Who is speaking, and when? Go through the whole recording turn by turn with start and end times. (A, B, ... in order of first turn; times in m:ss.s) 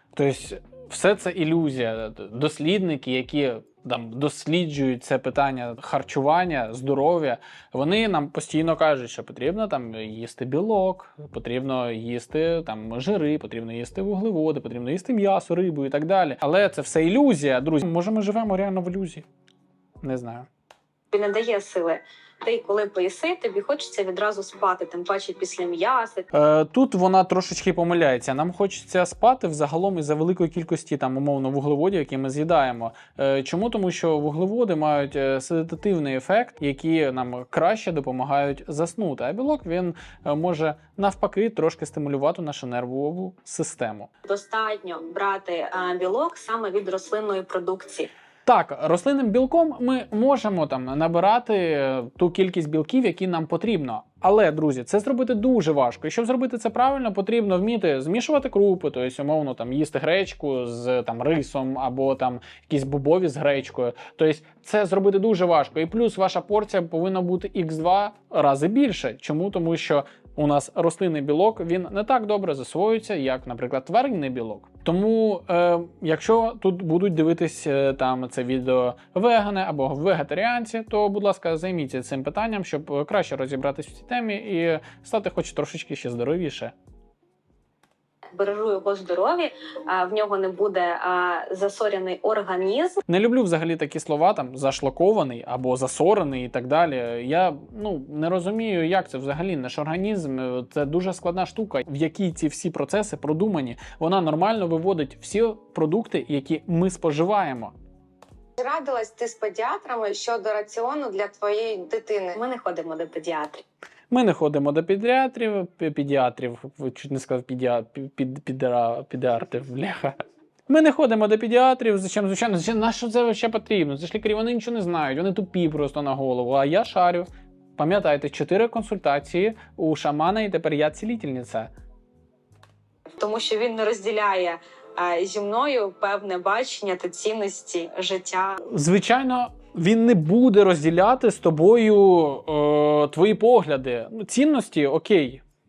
0:00.2-0:19.2 A
0:20.0-0:20.5 A
0:21.1-0:26.3 B
0:26.3-0:44.1 A
0:44.2-0:48.1 B
0:48.5-1:26.7 A
1:28.3-1:33.0 B
1:33.1-1:47.7 A
1:48.6-1:52.4 C
1:52.4-1:53.6 B
1:54.1-2:00.2 A
2:00.7-2:11.7 A
2:13.2-2:18.6 B
2:18.6-2:25.4 A